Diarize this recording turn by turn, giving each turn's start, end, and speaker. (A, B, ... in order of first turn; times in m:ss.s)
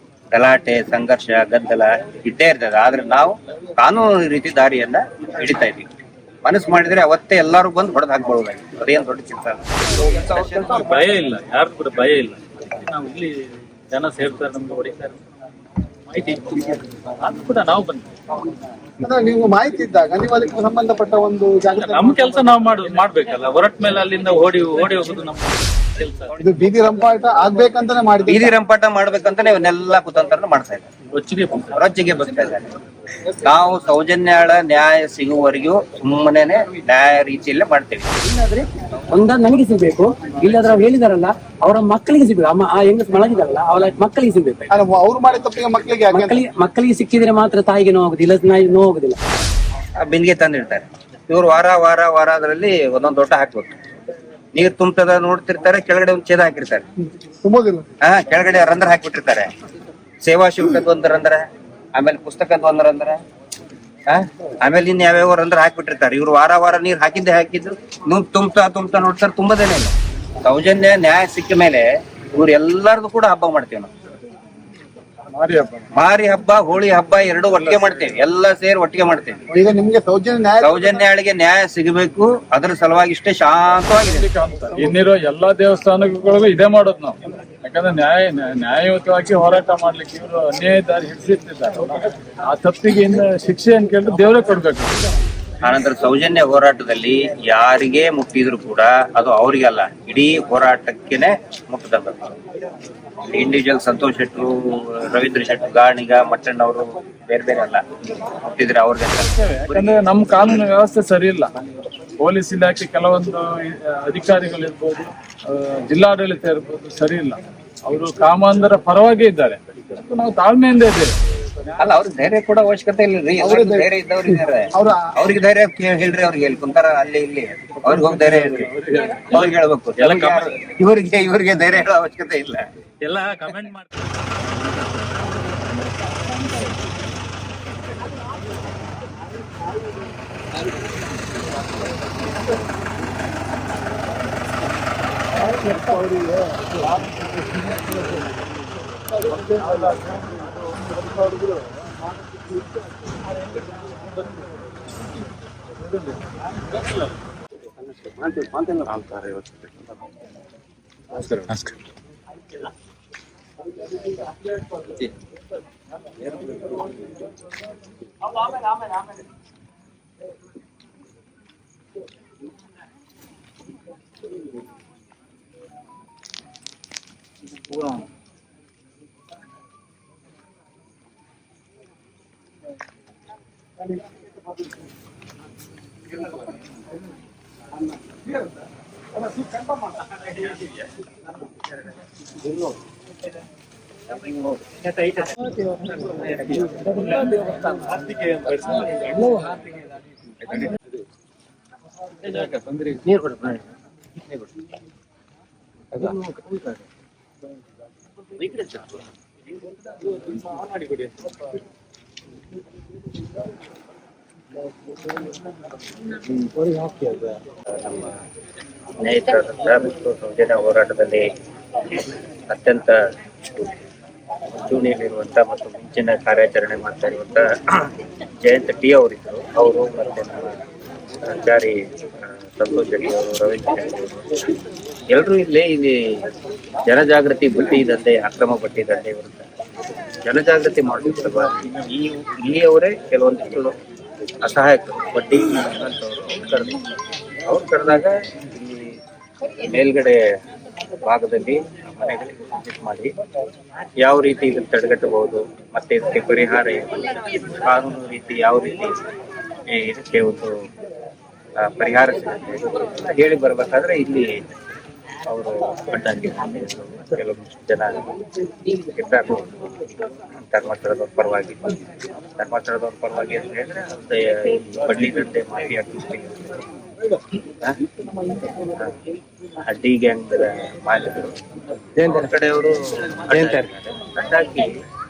0:00.3-0:05.9 A
0:06.4-0:11.2 A
0:10.2-0:15.2 B
0:16.1-0:18.0 B
0:19.0-0:22.6 C
0:21.8-0:26.3 B
0:26.4-0:28.6 C
0:28.3-0:30.9 A
0:31.2-0:31.8 B
0:31.8-0:32.7 A
0:33.3-0:38.1 A
0:38.2-0:44.7 D
0:44.7-0:46.4 C
0:46.1-0:49.2 D
0:50.0-0:53.8 A
0:54.5-0:56.8 A
0:57.4-0:57.9 C
0:58.0-0:59.5 A
1:00.2-1:01.4 A
1:02.0-1:03.2 A
1:04.1-1:13.9 A
1:15.4-1:15.8 E
1:15.9-1:19.4 A
1:17.5-1:18.2 E
1:19.5-1:21.0 C
1:20.6-1:24.3 A
1:24.0-1:35.0 E
1:35.6-1:42.4 A
1:43.3-1:50.0 A
1:49.2-1:51.5 E
1:52.2-2:01.1 E
2:01.7-2:01.9 E
2:01.8-2:12.6 A
2:03.4-2:03.9 C
2:04.7-2:05.1 C
2:07.8-2:09.2 E
2:09.2-2:10.6 B
2:13.0-2:13.9 B
2:25.4-2:27.8 C
2:29.3-2:29.5 C
2:29.8-2:30.2 E
2:35.8-2:36.2 E
2:38.9-2:39.5 B
3:16.1-3:19.5 B
3:22.3-3:23.2 B
3:23.2-3:23.6 A
3:26.0-3:26.7 B
3:28.4-3:28.9 A
3:30.3-3:31.0 B
3:37.7-3:38.2 A
3:39.0-3:41.3 A
3:42.5-3:43.0 A
3:44.5-3:50.6 A
3:51.2-3:51.8 A
3:52.4-3:54.2 A
3:55.1-3:56.2 A
3:56.8-3:59.5 A
4:00.2-4:03.8 A
4:04.4-4:06.8 A
4:07.5-4:09.0 A
4:09.6-4:10.2 A
4:11.0-4:13.1 A
4:14.0-4:19.0 A
4:19.7-4:20.5 A
4:21.6-4:24.4 A
4:25.3-4:28.1 A
4:28.6-4:29.7 A
4:30.5-4:31.8 A
4:32.4-4:36.4 A
4:38.7-4:39.0 A
4:39.6-4:41.4 A
4:42.0-4:44.7 A